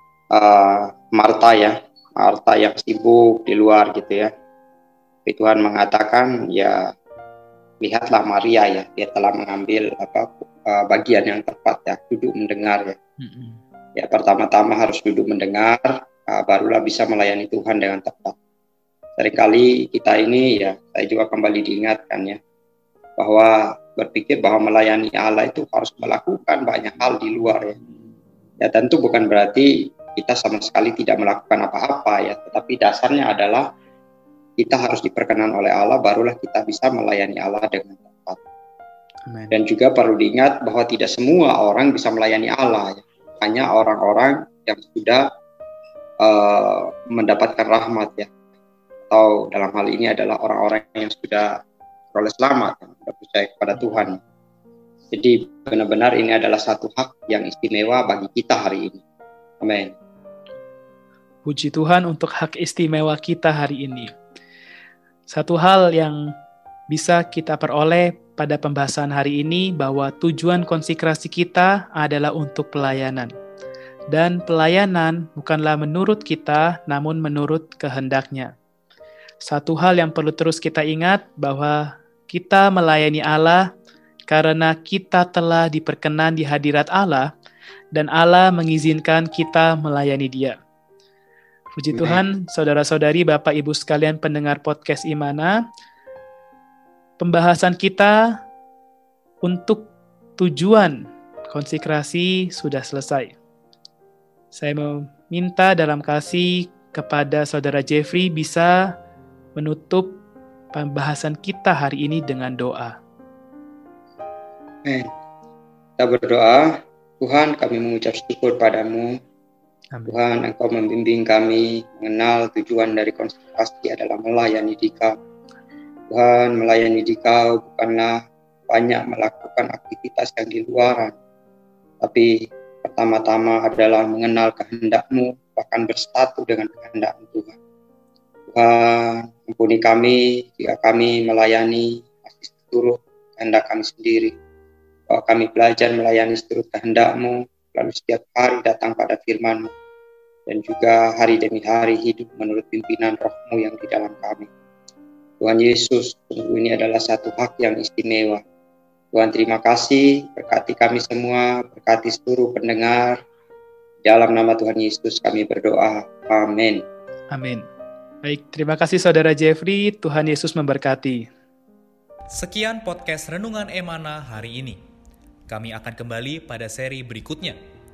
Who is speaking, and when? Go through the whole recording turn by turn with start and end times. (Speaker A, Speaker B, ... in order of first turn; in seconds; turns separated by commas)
Speaker A: 0.3-4.3, Speaker A: 5.3-6.9, Speaker A: 7.8-13.0, Speaker B: 13.2-13.6, Speaker A: 14.0-18.4, Speaker A: 19.2-22.4, Speaker A: 23.2-27.8, Speaker A: 28.6-33.6, Speaker A: 34.6-38.4, Speaker B: 39.3-39.5, Speaker A: 39.5-45.2, Speaker A: 46.2-48.3, Speaker A: 49.1-51.5, Speaker A: 52.1-54.2, Speaker A: 55.1-59.0, Speaker A: 59.6-59.9, Speaker B: 61.5-64.1, Speaker B: 65.3-66.2, Speaker B: 66.9-73.3, Speaker B: 74.1-78.5, Speaker B: 79.4-83.7, Speaker B: 84.3-87.3, Speaker B: 87.9-90.6, Speaker B: 91.8-95.6, Speaker A: 92.0-92.2, Speaker B: 97.2-98.4, Speaker B: 99.4-101.0, Speaker B: 101.5-103.3, Speaker B: 104.5-108.9, Speaker B: 109.6-110.2, Speaker B: 110.7-112.9, Speaker A: 114.8-115.1, Speaker A: 116.0-119.2, Speaker A: 120.1-125.1, Speaker A: 126.1-128.2, Speaker A: 128.7-131.1, Speaker A: 132.0-137.6, Speaker A: 138.5-144.3, Speaker A: 145.1-149.7, Speaker A: 150.5-154.5, Speaker A: 155.4-158.4, Speaker A: 159.1-163.2, Speaker A: 164.0-166.8, Speaker B: 167.3-167.7, Speaker B: 168.2-171.3, Speaker C: 172.3-174.8, Speaker C: 175.5-177.6